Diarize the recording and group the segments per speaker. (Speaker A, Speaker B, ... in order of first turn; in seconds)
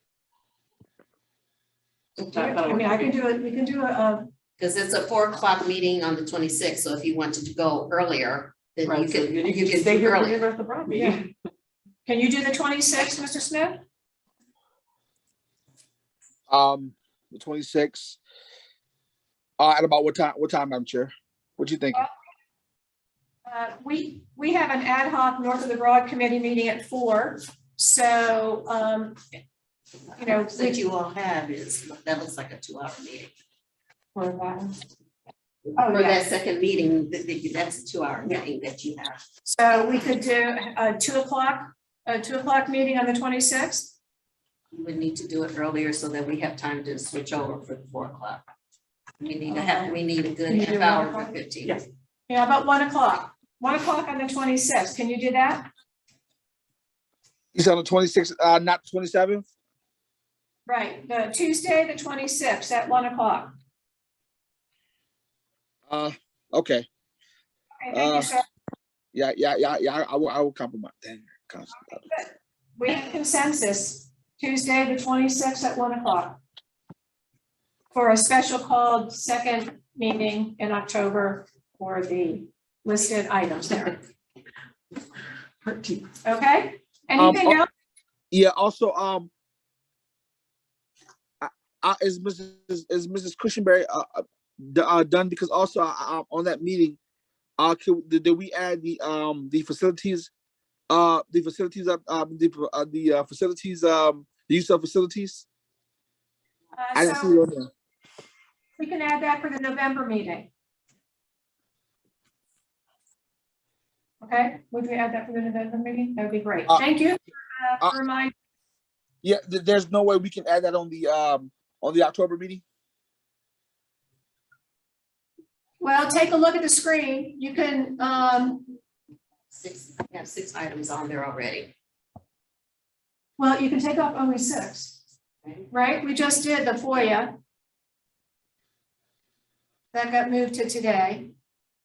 Speaker A: 2.2-3.1, 8.9-11.2, 50.6-51.1, 85.6-86.0
Speaker B: 2.4-4.3, 10.9-11.2, 12.1-13.8, 23.4-29.2, 30.2-30.8, 34.1-34.7, 35.8-36.2, 39.4-43.9, 49.5-49.9, 52.3-55.7, 60.6-63.5, 67.8-68.4, 72.1-76.4, 77.9-84.0, 86.2-87.7, 106.7-107.4, 108.8-110.5, 114.2-118.3, 125.8-128.7, 133.4-135.0, 135.7-137.3, 139.9-141.3
Speaker C: 4.6-10.4, 30.2-33.3, 35.8-39.2, 44.7-48.4, 49.2-51.8, 129.5-131.7, 135.4-135.7
Speaker D: 16.5-18.2, 19.6-22.0, 57.5-59.4, 65.9-66.8, 67.9-68.3, 69.1-72.1, 87.2-87.6, 88.3-89.3, 91.4-97.0, 97.6-100.3, 100.9-105.4, 106.9-107.7, 119.2-122.6